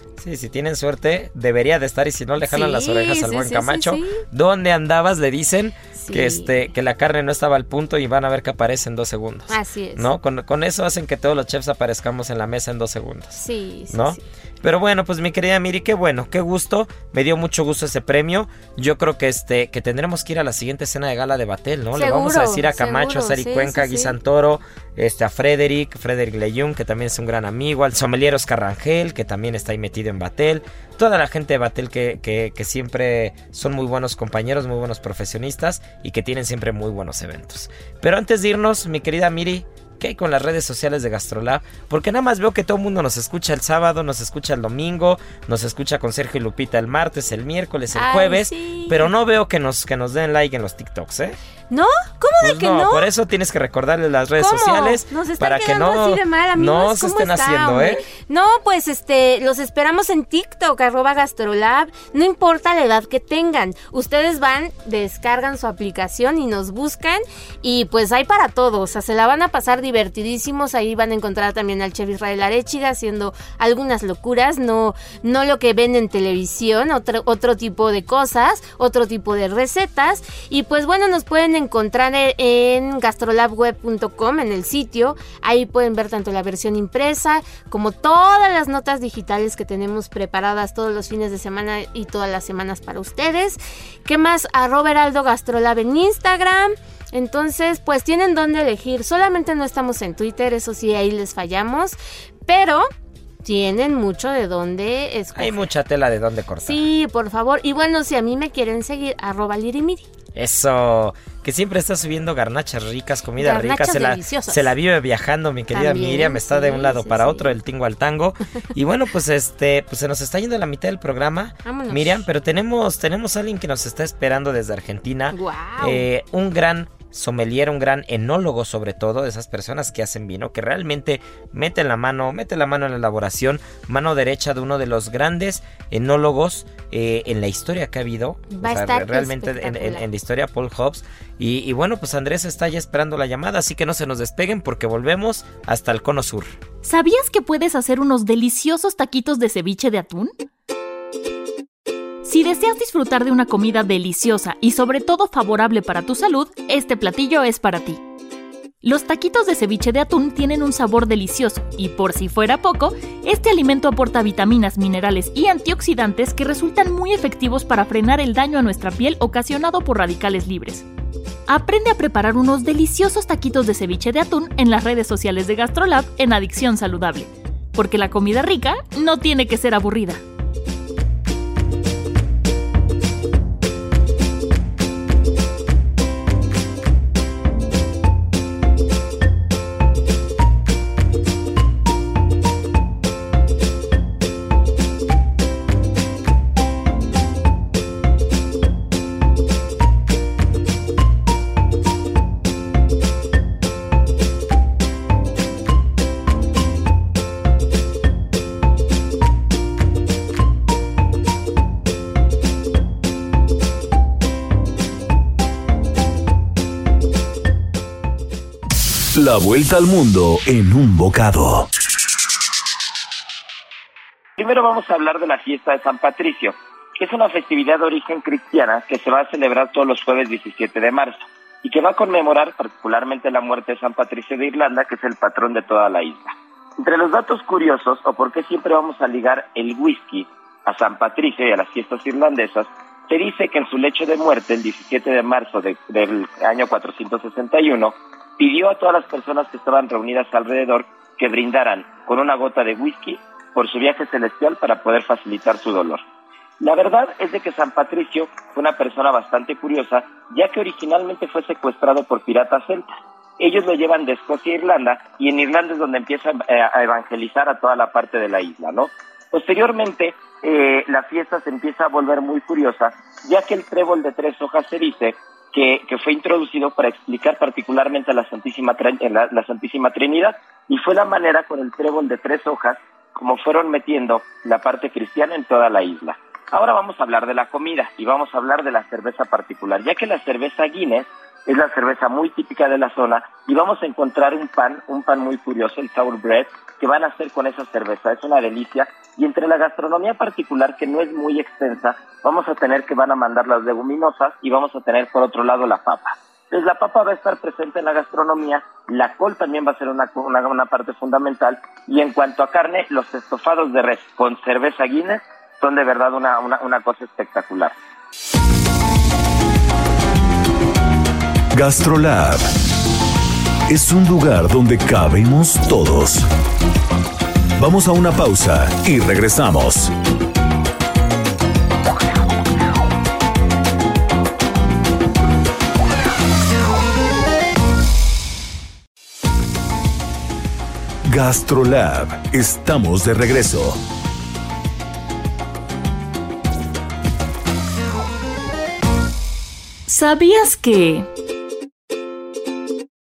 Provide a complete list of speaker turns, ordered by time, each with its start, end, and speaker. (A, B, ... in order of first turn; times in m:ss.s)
0:00.2-0:51.4 A
0:02.4-0:04.2 B
0:05.9-0:06.5 B
0:09.5-0:10.1 B
0:13.3-0:14.2 B
0:21.9-0:24.2 B
0:47.9-0:49.1 B
0:51.7-0:53.1 B
0:52.4-0:58.0 A
0:54.4-1:42.9 B
1:43.4-1:45.6 B
1:45.3-1:46.8 A
1:46.6-1:50.0 B
1:50.3-2:26.5 A
1:53.4-1:54.7 B
1:55.7-1:57.5 B
2:01.6-2:02.2 B
2:05.3-2:06.1 B
2:18.5-2:20.0 B
2:26.8-2:30.3 C
2:32.2-2:38.0 C
2:38.8-2:50.8 C
2:51.5-3:00.2 C
3:39.1-3:41.7 D
3:44.4-4:16.0 E
4:16.6-4:22.9 E
4:23.4-5:17.7 E
5:21.5-5:22.5 D
5:23.7-5:26.2 D
5:27.6-5:29.9 D
5:41.0-5:43.8 D
5:49.9-5:51.1 C